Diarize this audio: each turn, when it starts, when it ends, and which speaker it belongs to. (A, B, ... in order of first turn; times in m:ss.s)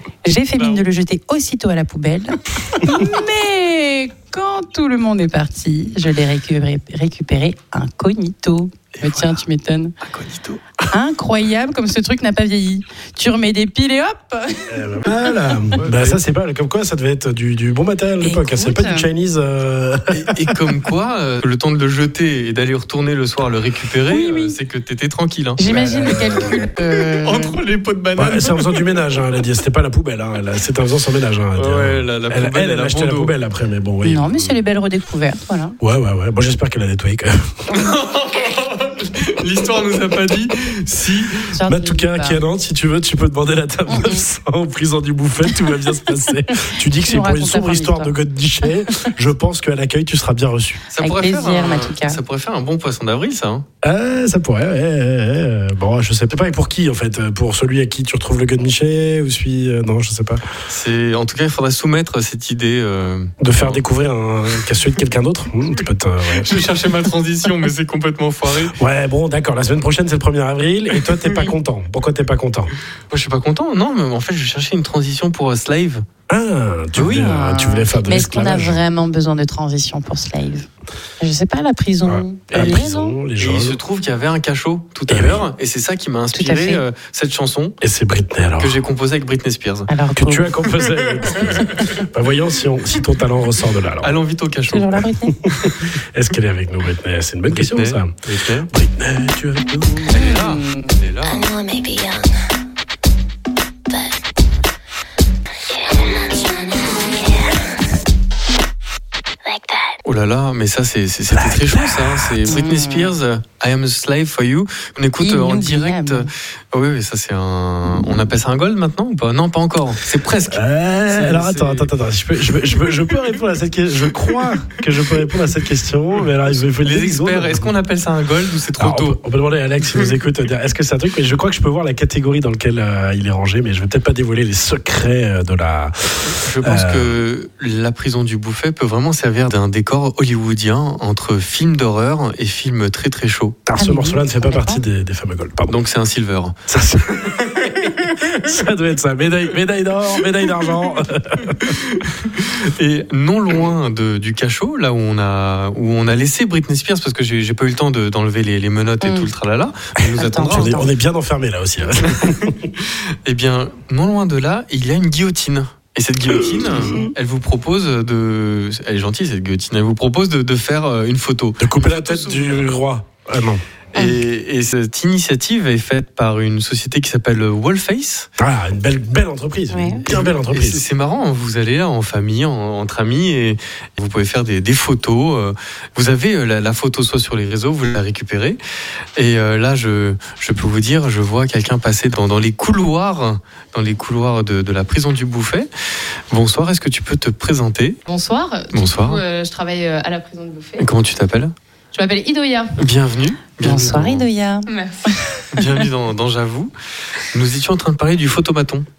0:00.2-0:09.9 A
0:00.6-0:00.8 B
0:08.9-0:09.4 B
0:10.0-0:10.9 B
0:10.9-0:15.1 A
0:14.7-0:20.5 C
0:15.8-0:16.2 B
0:18.2-0:19.1 A
0:20.1-0:29.0 B
0:24.1-0:24.6 A
0:25.6-0:27.6 A
0:25.7-0:26.5 C
0:28.2-0:34.6 C
0:31.5-0:33.3 B
0:34.0-0:35.8 A
0:35.8-0:37.7 C
0:37.7-0:41.5 B
0:41.5-0:42.4 A
0:41.6-0:50.8 C
0:43.9-0:44.2 A
0:47.0-0:48.2 A
0:50.9-0:53.6 B
0:51.0-0:52.2 A
0:53.8-1:00.4 C
1:00.7-1:03.8 B
1:03.4-1:06.7 C
1:06.3-1:08.7 B
1:08.7-1:12.7 C
1:11.1-1:11.5 B
1:13.1-1:16.0 B
1:16.3-1:18.8 C
1:16.9-1:20.7 A
1:21.2-1:23.2 A
1:22.0-1:23.8 C
1:23.4-1:27.8 B
1:25.1-1:25.5 C
1:26.3-1:26.8 A
1:27.8-1:28.8 C
1:28.6-1:29.9 B
1:29.9-1:30.7 A
1:30.2-1:34.1 C
1:31.1-1:31.8 B
1:34.0-1:35.0 B
1:34.7-1:35.4 A
1:35.4-1:40.4 C
1:35.6-1:35.9 B
1:37.5-1:38.7 B
1:40.1-1:41.5 B
1:40.1-1:40.9 A
1:41.2-1:42.4 D
1:43.9-1:44.2 D
1:45.6-1:48.0 D
1:49.4-1:50.0 D
1:50.0-2:01.9 B
1:51.3-1:52.4 C
1:52.4-1:53.1 A
1:55.2-1:56.3 A
2:00.5-2:07.7 C
2:06.7-2:09.2 B
2:08.8-2:17.2 C
2:16.3-2:23.6 B
2:23.6-2:25.8 C
2:23.8-2:24.8 A
2:25.7-2:26.5 B
2:26.7-2:31.8 C
2:27.3-2:27.8 B
2:31.6-2:40.8 B
2:39.0-2:39.3 A
2:40.2-2:40.9 A
2:40.5-2:42.6 C
2:42.0-2:52.7 B
2:46.5-2:47.0 C
2:51.6-2:53.6 C
2:53.9-2:58.3 B
2:58.4-3:00.8 C
2:59.7-3:00.0 A
3:00.1-3:08.6 B
3:09.2-3:15.7 B
3:16.3-3:18.0 B
3:18.0-3:20.8 E
3:18.7-3:19.2 B
3:20.8-3:21.5 B
3:21.9-3:22.8 E
3:22.8-3:24.2 B
3:23.6-3:25.8 A
3:24.7-3:25.5 E
3:25.5-3:28.8 B